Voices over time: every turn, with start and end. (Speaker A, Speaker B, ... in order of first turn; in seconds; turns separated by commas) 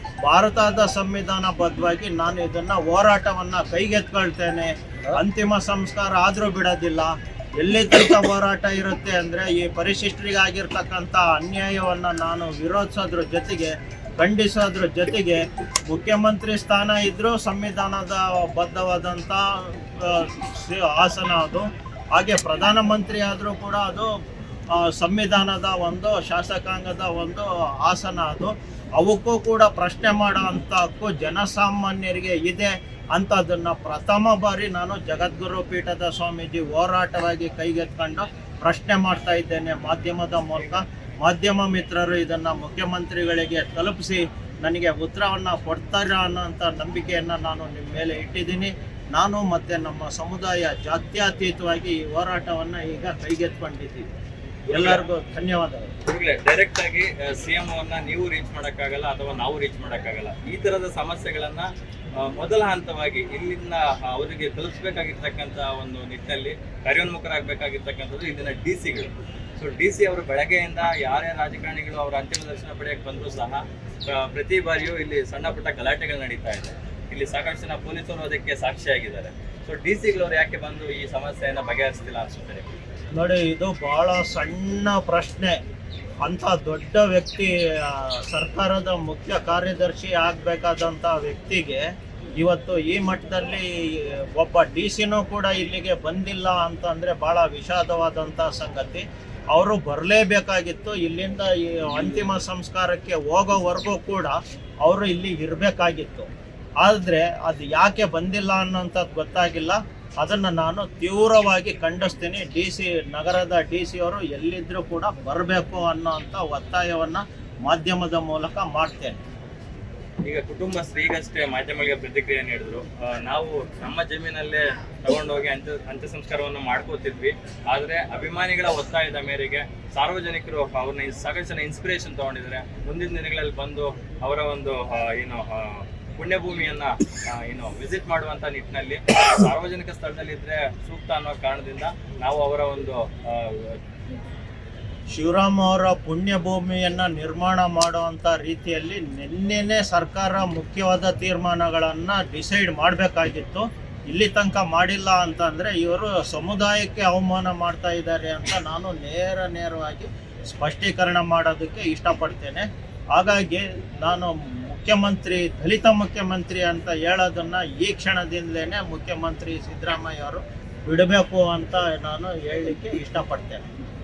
Speaker A: 0.2-24.1, Speaker A: 24.7-54.1, Speaker B: 54.7-55.0, Speaker A: 54.7-55.9, Speaker B: 56.0-82.7, Speaker A: 83.1-85.6, Speaker A: 86.2-106.3, Speaker A: 106.8-119.2, Speaker B: 120.2-143.8, Speaker A: 145.1-173.6